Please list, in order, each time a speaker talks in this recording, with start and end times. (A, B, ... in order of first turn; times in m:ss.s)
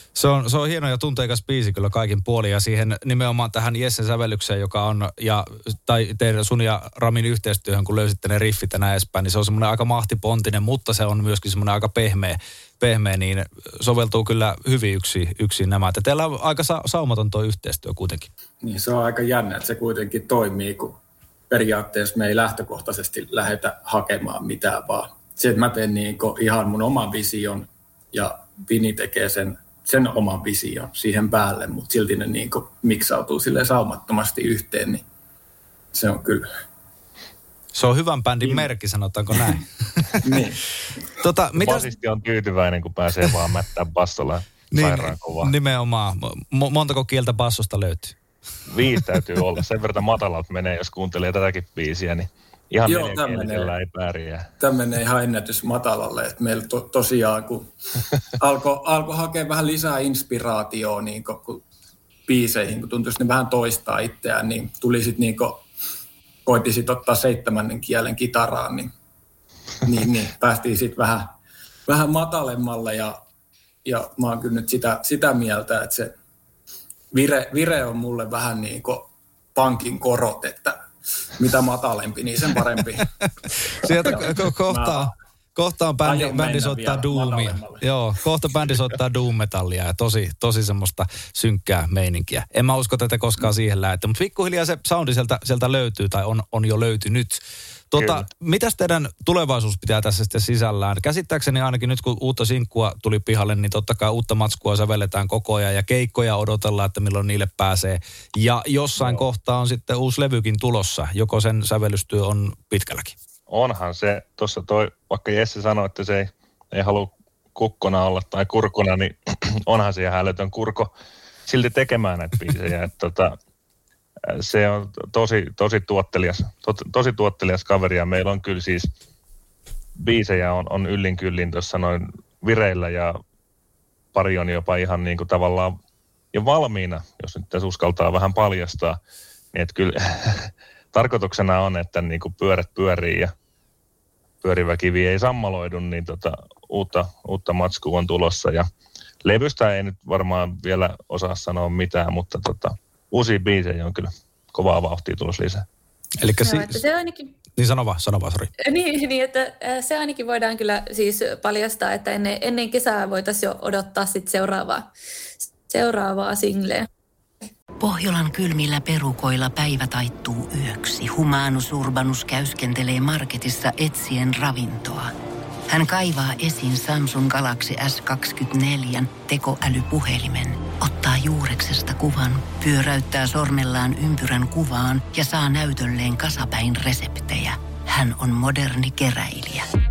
0:00.2-0:18.3 A
0:18.6-0:35.0 B
0:35.9-0:36.5 B
0:37.7-0:40.0 A
0:40.2-0:40.6 B
0:41.2-0:41.9 A
0:41.6-0:45.5 C
0:44.7-0:48.2 A
0:48.7-0:54.4 C
0:52.8-0:53.7 B
0:54.6-0:57.7 B
0:58.4-1:01.6 B
1:02.3-1:05.6 B
1:06.4-1:08.9 B
1:09.8-1:13.2 B
1:13.8-1:16.1 B
1:17.1-1:20.8 B
1:21.4-1:23.1 B
1:23.8-1:53.1 A
1:24.1-1:25.1 B
1:26.0-1:27.8 B
1:38.0-1:38.2 C
1:49.0-1:49.2 C
1:53.5-2:00.9 C
2:01.5-2:03.3 C
2:04.4-2:08.9 C
2:10.0-2:13.2 C
2:14.1-2:15.7 C
2:16.3-2:19.0 C
2:19.5-2:23.3 C
2:24.4-2:28.6 C
2:29.2-2:35.6 C
2:36.2-2:36.8 A
2:36.4-2:37.3 D
2:37.6-2:38.5 A
2:38.6-2:44.9 D
2:45.4-2:46.9 D
2:47.8-2:55.1 E
2:55.7-3:09.7 E